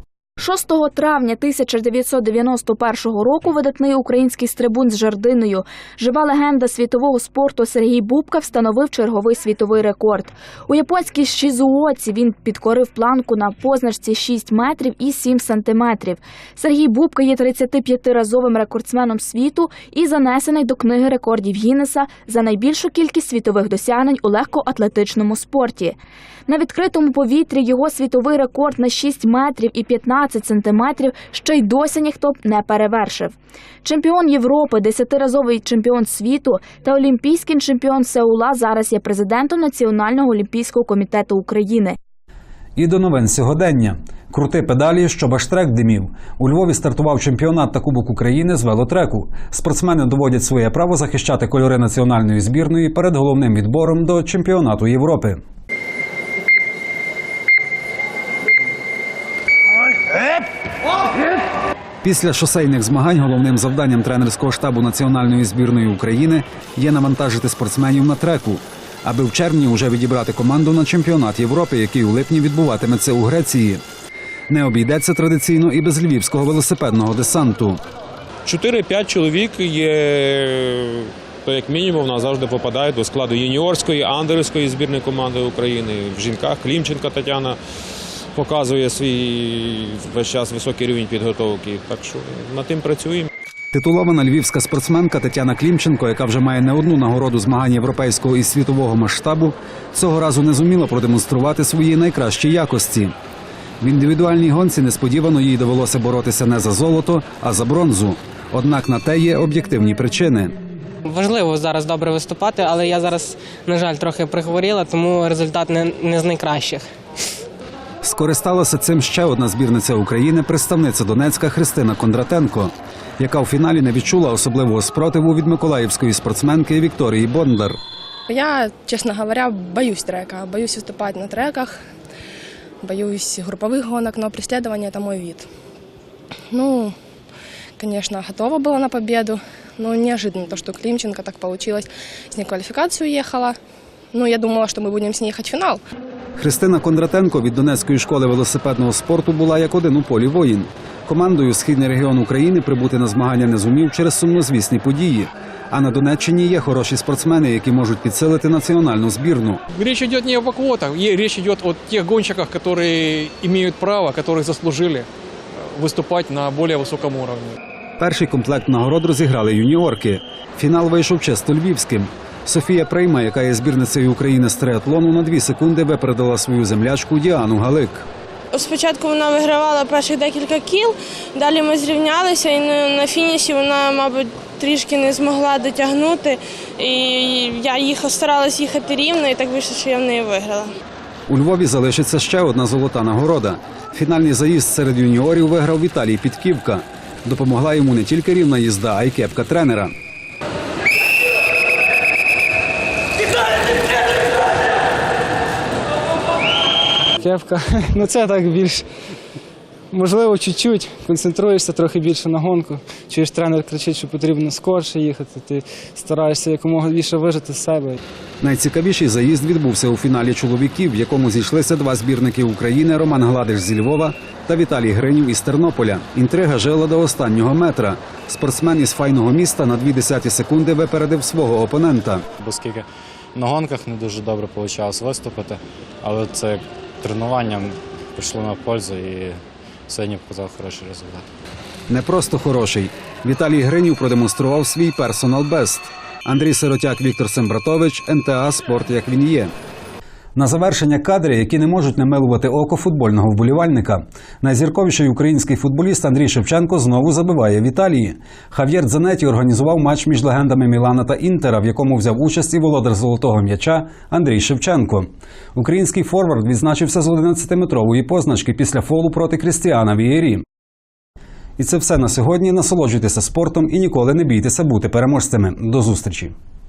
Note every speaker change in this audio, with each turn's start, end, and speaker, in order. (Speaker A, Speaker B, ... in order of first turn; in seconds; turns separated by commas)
Speaker A: 0.4-26.0, Speaker A: 26.5-42.0, Speaker B: 42.8-55.4, Speaker B: 62.0-73.8, Speaker B: 74.5-77.8, Speaker C: 78.5-87.6, Speaker C: 88.3-93.3, Speaker B: 93.7-103.1, Speaker B: 103.8-110.6, Speaker D: 111.1-116.8, Speaker B: 118.0-127.8, Speaker E: 128.3-131.7, Speaker E: 132.8-135.5, Speaker E: 136.5-136.9, Speaker E: 137.8-143.5, Speaker E: 144.1-145.8, Speaker B: 146.4-159.6, Speaker F: 159.7-165.1, Speaker F: 165.7-167.6, Speaker B: 168.0-178.1, Speaker G: 178.5-190.7, Speaker B: 191.3-199.9, Speaker H: 207.2-208.9, Speaker H: 209.9-218.0, Speaker B: 218.4-232.2, Speaker I: 232.4-241.3, Speaker B: 241.9-249.5, Speaker B: 250.3-270.4, Speaker B: 271.6-276.3